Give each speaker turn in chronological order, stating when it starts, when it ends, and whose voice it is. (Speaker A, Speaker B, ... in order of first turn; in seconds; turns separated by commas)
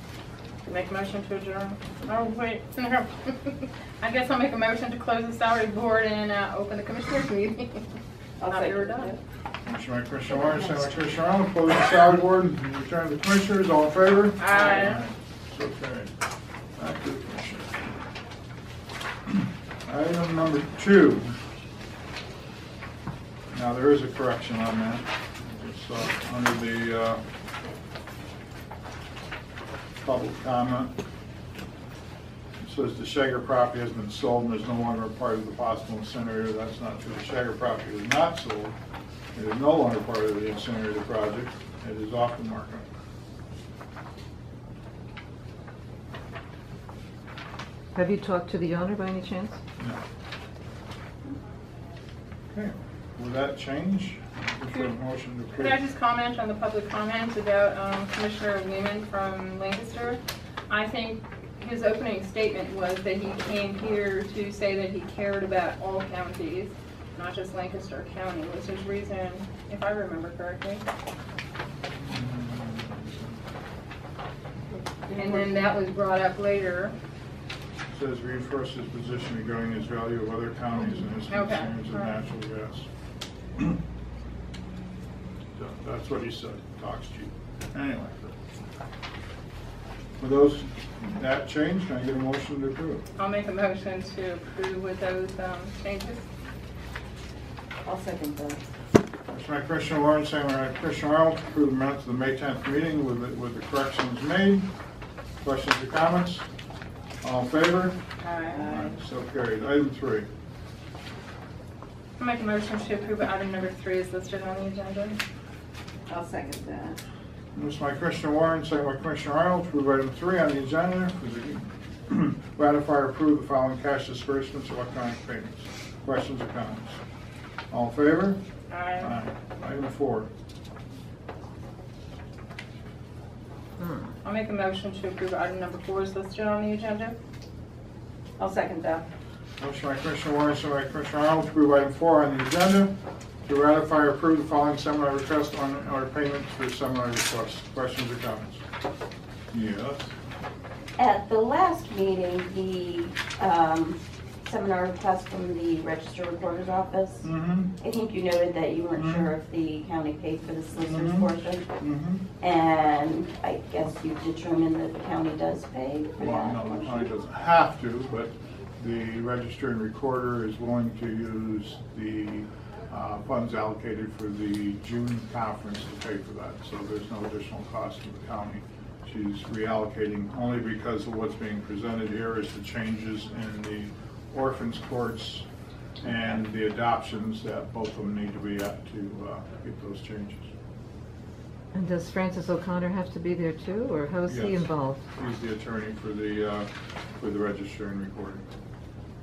Speaker A: 0.7-7.8, Speaker B: 8.4-9.2, Speaker A: 8.5-9.1, Speaker C: 9.6-16.1, Speaker A: 14.4-15.0, Speaker C: 16.8-17.8, Speaker C: 19.9-21.3, Speaker C: 23.5-27.2, Speaker C: 30.0-30.9, Speaker C: 32.6-38.7, Speaker C: 39.3-42.9, Speaker D: 48.0-49.6, Speaker C: 52.5-55.8, Speaker A: 55.5-70.8, Speaker C: 72.0-73.3, Speaker B: 75.1-75.7, Speaker A: 75.1-77.0, Speaker C: 77.9-82.9, Speaker A: 81.3-82.1, Speaker C: 85.5-88.3, Speaker C: 90.2-93.0, Speaker A: 93.2-96.2, Speaker B: 97.8-98.6, Speaker C: 99.3-104.7, Speaker C: 105.4-106.5, Speaker C: 107.2-108.0, Speaker B: 108.2-108.6, Speaker C: 108.6-110.3, Speaker A: 112.2-115.2, Speaker B: 116.1-117.0, Speaker C: 117.5-127.0, Speaker C: 127.7-128.4, Speaker A: 128.7-129.1, Speaker C: 129.0-130.3, Speaker A: 134.2-137.1, Speaker B: 138.4-139.0, Speaker C: 139.6-142.9, Speaker C: 143.4-148.6, Speaker C: 149.5-150.1, Speaker E: 151.0-161.7, Speaker C: 157.2-157.8, Speaker C: 158.9-159.3, Speaker C: 160.8-162.2, Speaker E: 162.4-167.1, Speaker C: 166.2-185.4, Speaker C: 186.0-190.5, Speaker D: 191.7-195.0, Speaker C: 194.2-198.4